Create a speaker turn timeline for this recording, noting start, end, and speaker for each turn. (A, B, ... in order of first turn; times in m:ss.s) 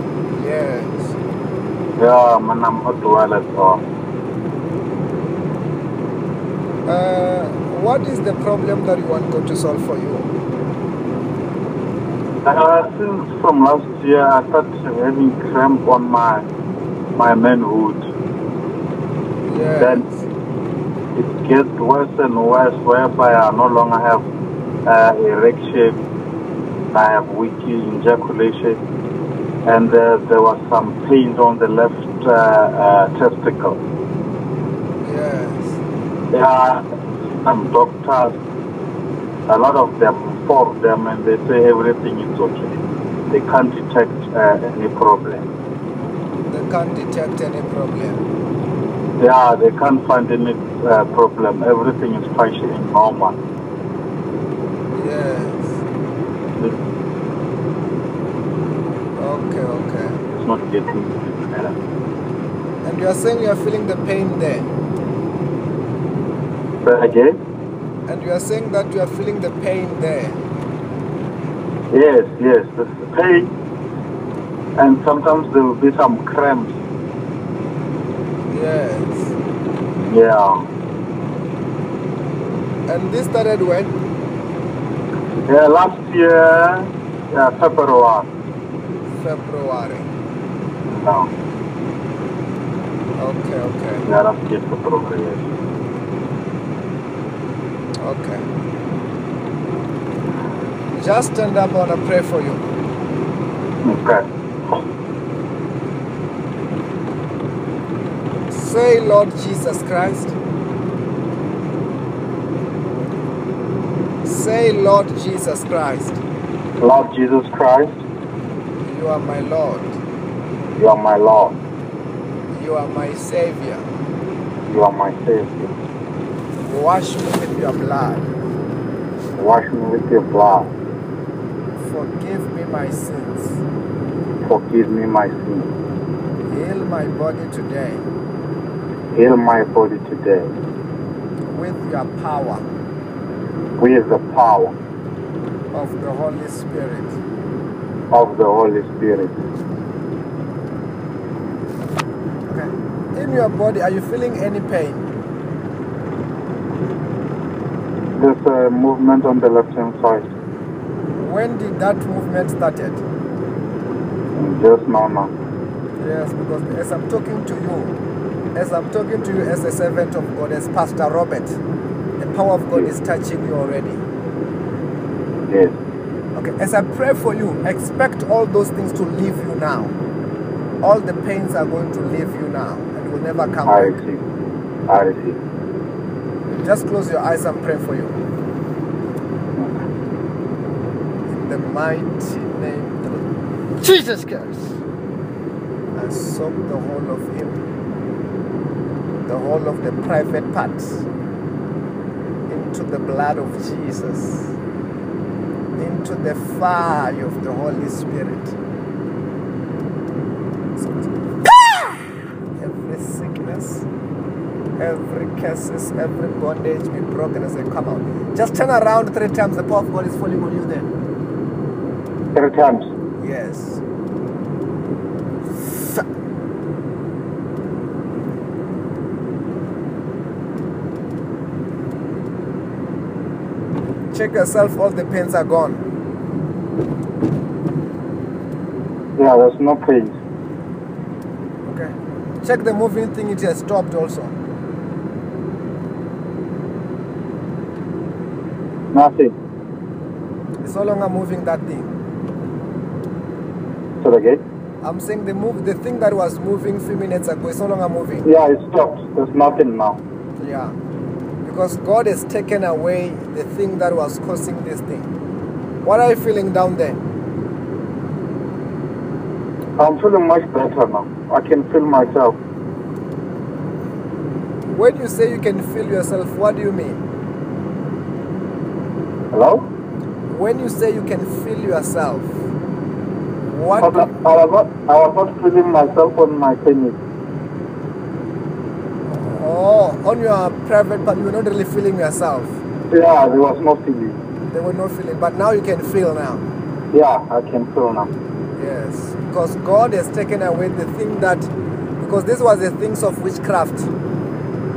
0:00.3-0:01.2 A
0:02.0-0:03.8 B
0:06.8-0:10.3 A
0:12.4-0:16.5 B
0:17.2-0:18.0 B
0:19.5-0:20.2 A
0:19.8-0:20.0 B
0:21.2-0:24.2 B
0:24.8-0:26.0 B
0:26.9-0:28.8 B
0:29.6-0:33.8 B
0:35.0-0:35.8 A
0:36.3-0:38.4 B
0:39.5-0:42.8 B
0:43.3-0:45.5 B
0:46.5-0:48.2 A
0:49.2-0:53.4 B
0:54.9-0:55.8 A
0:59.2-1:00.2 A
1:00.4-1:01.8 B
1:02.8-1:04.7 A
1:06.8-1:07.4 B
1:08.1-1:10.4 A
1:11.9-1:13.5 B
1:14.8-1:16.7 B
1:18.5-1:19.3 A
1:20.1-1:20.6 B
1:22.9-1:23.9 A
1:25.5-1:28.3 B
1:29.1-1:30.1 A
1:30.8-1:31.3 B
1:33.2-1:34.1 A
1:34.0-1:35.4 B
1:38.0-1:38.4 A
1:40.9-1:42.6 A
1:43.8-1:44.2 B
1:48.5-1:50.4 A
1:54.2-1:56.2 A
1:56.8-1:58.0 B
1:58.8-2:00.0 A
2:00.8-2:01.6 B
2:02.5-2:03.8 A
2:04.7-2:05.7 B
2:06.6-2:08.3 A
2:09.4-2:10.7 B
2:11.8-2:13.6 A
2:14.4-2:15.7 B
2:16.5-2:18.0 A
2:19.1-2:20.5 B
2:21.5-2:22.6 A
2:23.8-2:24.7 B
2:25.7-2:27.2 A
2:28.1-2:29.3 B
2:32.5-2:35.1 A
2:38.2-2:40.3 B
2:41.2-2:43.0 A
2:44.4-2:45.3 B
2:46.0-2:47.9 A
2:48.5-2:51.6 A
2:52.2-2:54.0 A
2:55.5-2:55.7 B
2:56.4-2:59.9 A
3:00.8-3:04.0 A
3:03.7-3:04.2 B
3:04.9-3:05.4 B
3:06.5-3:08.2 A
3:11.3-3:13.3 A
3:13.8-3:14.8 A
3:15.9-3:17.6 A
3:19.2-3:21.1 A
3:22.5-3:24.5 A
3:25.8-3:28.6 A
3:30.8-3:31.0 A
3:32.6-3:33.9 A
3:34.8-3:40.9 A
3:42.3-3:42.9 B
3:43.2-3:43.8 A
3:45.6-3:46.0 A
3:54.1-3:55.8 A
3:59.2-4:00.2 B
4:01.7-4:01.9 A
4:02.4-4:04.3 A
4:08.9-4:09.3 B
4:10.6-4:11.9 A
4:14.0-4:14.4 B
4:14.8-4:18.2 A
4:18.2-4:20.0 B
4:20.4-4:20.7 A
4:21.4-4:25.1 A
4:25.8-4:27.0 A
4:29.8-4:32.4 B
4:34.7-4:37.0 A
4:39.3-4:39.7 B
4:40.3-4:42.3 A
4:43.5-4:44.1 A
4:43.8-4:47.0 B
4:49.2-4:52.5 A
4:52.9-4:54.2 B
4:54.5-4:56.4 A
4:56.9-4:58.1 B
4:58.6-5:03.9 A